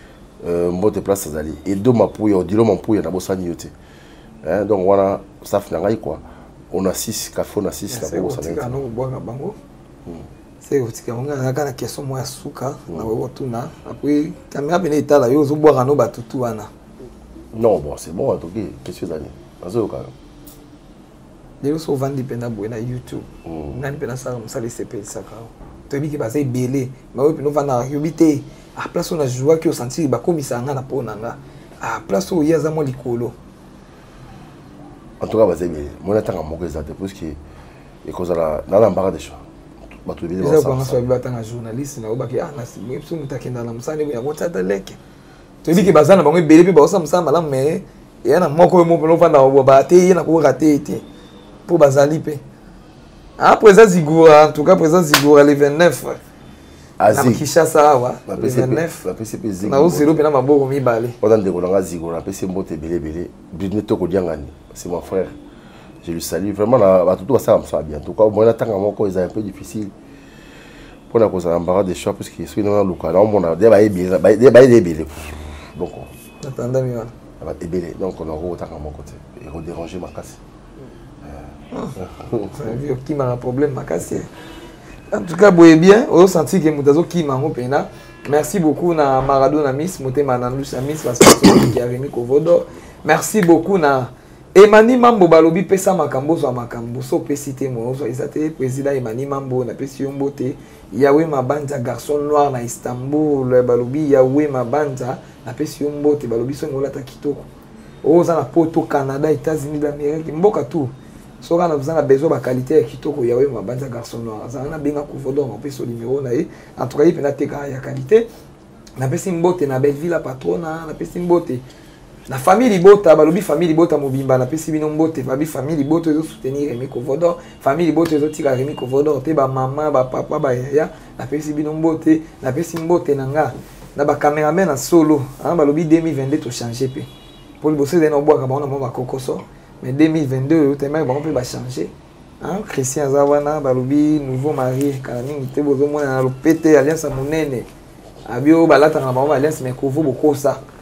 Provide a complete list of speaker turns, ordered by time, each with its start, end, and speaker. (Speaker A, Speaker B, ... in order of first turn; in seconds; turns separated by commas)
Speaker A: 0.4-3.7, Speaker A: 4.4-8.8, Speaker B: 7.9-9.6, Speaker B: 10.6-16.7, Speaker A: 17.5-20.1, Speaker B: 21.6-33.3, Speaker A: 23.4-23.8, Speaker A: 35.2-37.4, Speaker A: 38.0-39.4, Speaker A: 40.0-41.0, Speaker B: 40.4-45.0, Speaker B: 45.6-51.0, Speaker B: 51.7-52.4, Speaker B: 53.4-56.2, Speaker A: 57.0-57.4, Speaker B: 57.1-59.0, Speaker A: 58.3-60.2, Speaker B: 59.6-61.2, Speaker A: 61.2-65.3, Speaker A: 66.0-69.9, Speaker A: 71.1-76.1, Speaker B: 76.4-77.1, Speaker A: 77.4-80.4, Speaker A: 81.2-82.7, Speaker B: 82.5-84.3, Speaker B: 85.1-107.5, Speaker B: 108.0-118.3, Speaker B: 119.0-121.6, Speaker B: 122.3-137.1, Speaker B: 137.6-147.7, Speaker B: 148.2-150.6